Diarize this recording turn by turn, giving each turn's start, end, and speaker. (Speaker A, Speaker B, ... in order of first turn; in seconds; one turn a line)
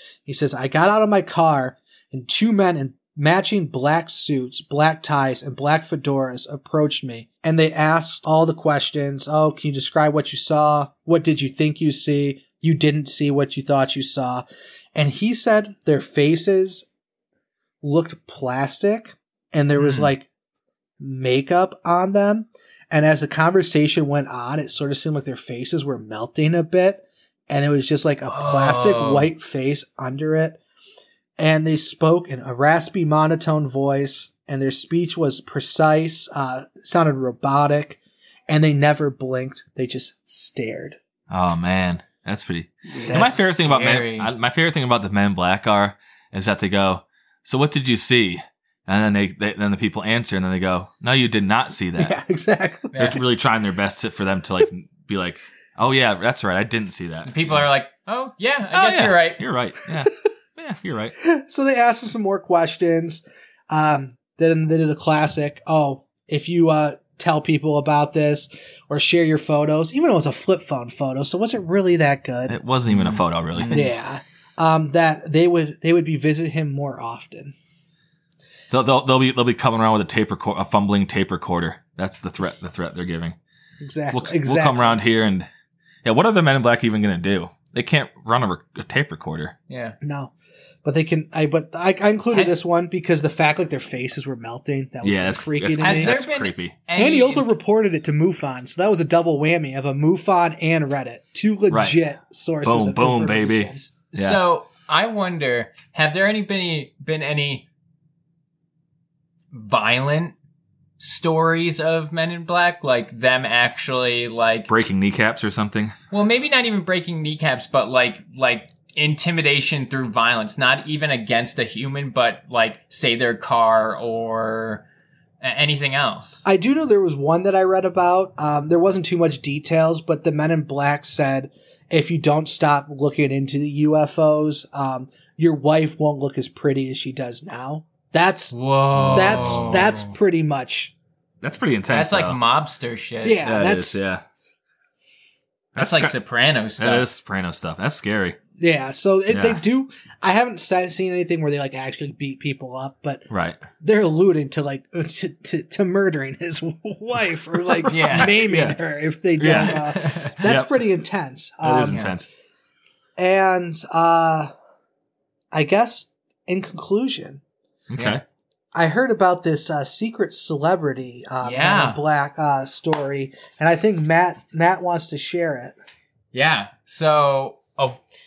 Speaker A: 0.2-16.9
Speaker A: 17.8-20.3
Speaker B: 19.8-20.1
Speaker A: 21.0-30.6
Speaker B: 28.3-29.3
Speaker A: 31.4-41.0
Speaker C: 41.3-52.1
Speaker A: 42.9-43.5
Speaker B: 43.1-44.3
Speaker A: 52.0-53.0
Speaker B: 52.9-53.2
Speaker C: 53.0-57.6
Speaker B: 57.2-59.4
Speaker C: 58.7-61.1
Speaker A: 61.2-72.6
Speaker C: 72.5-73.8
Speaker B: 72.9-73.9
Speaker A: 73.7-77.5
Speaker C: 78.7-83.3
Speaker A: 83.8-85.0
Speaker C: 84.1-85.5
Speaker C: 86.0-89.5
Speaker B: 89.7-90.0
Speaker A: 90.0-90.3
Speaker A: 90.8-96.2
Speaker B: 92.3-92.6
Speaker C: 95.0-96.7
Speaker B: 95.8-97.5
Speaker A: 97.0-103.9
Speaker C: 101.7-102.0
Speaker C: 102.6-104.4
Speaker B: 104.1-107.7
Speaker B: 109.5-110.3
Speaker B: 111.0-114.7
Speaker C: 114.7-115.9
Speaker B: 116.1-124.8
Speaker B: 125.4-126.4
Speaker A: 126.4-138.6
Speaker B: 138.5-140.1
Speaker C: 139.0-139.8
Speaker A: 139.1-140.9
Speaker C: 141.4-142.4
Speaker B: 141.9-143.4
Speaker A: 143.2-144.0
Speaker C: 143.4-144.2
Speaker C: 145.8-146.1
Speaker B: 145.8-147.1
Speaker C: 146.8-148.3
Speaker A: 148.6-153.3
Speaker C: 149.3-149.6
Speaker C: 153.3-153.6
Speaker A: 153.8-162.0
Speaker B: 157.9-158.3
Speaker C: 158.0-158.8
Speaker C: 159.4-159.9
Speaker B: 159.6-160.4
Speaker C: 160.4-160.7
Speaker C: 161.6-162.3
Speaker B: 161.9-162.2
Speaker A: 163.2-164.5
Speaker A: 165.5-167.4
Speaker C: 167.9-168.2
Speaker B: 167.9-168.2
Speaker A: 168.7-175.8
Speaker B: 171.4-172.0
Speaker B: 176.3-178.0